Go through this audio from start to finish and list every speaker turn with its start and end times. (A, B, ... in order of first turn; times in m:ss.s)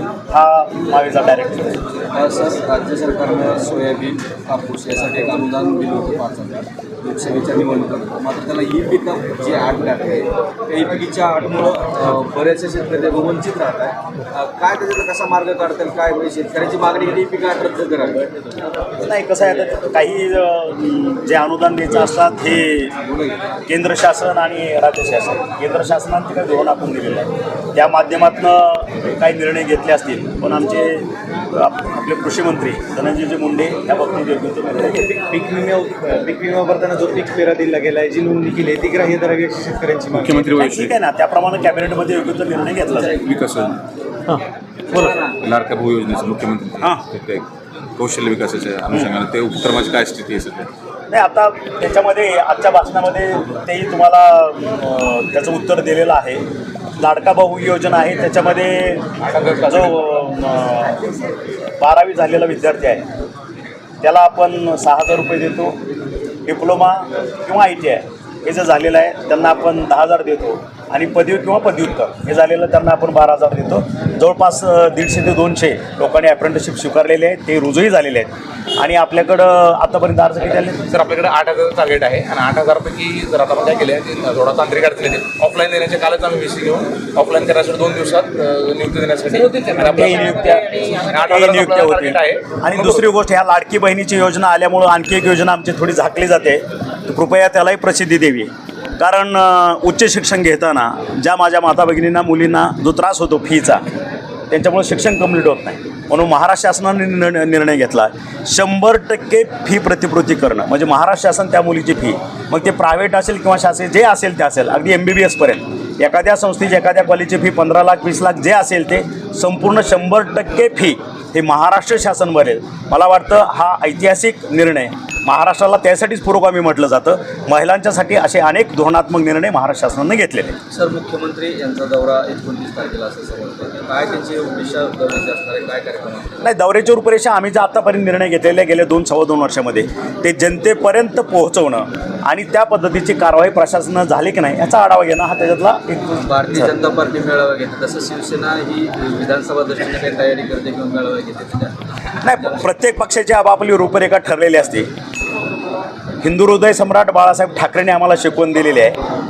0:00.3-0:01.8 A
0:02.1-0:18.3 B
0:19.0-0:23.0 A
0:23.1-0:23.4 B
0:23.7-0:35.2 A
0:35.2-0:40.1 C
0:36.2-0:37.0 B
0:40.1-0:40.9 D
0:40.5-0:43.2 A
0:42.9-0:43.3 B
0:43.2-0:43.8 D
0:44.9-0:45.4 B
0:45.4-0:50.7 D
0:51.1-0:56.4 A
0:57.0-0:59.1 A
0:59.2-1:00.0 E
0:59.7-1:01.1 A
1:01.8-1:03.0 A
1:04.0-1:05.8 A
1:06.5-1:20.8 A
1:20.8-1:33.0 E
1:29.8-1:43.8 A
1:44.5-2:10.6 A
2:10.7-2:16.4 B
2:16.4-2:26.7 A
2:26.2-2:31.8 B
2:32.2-2:34.9 A
2:32.3-2:32.6 B
2:36.2-2:39.0 A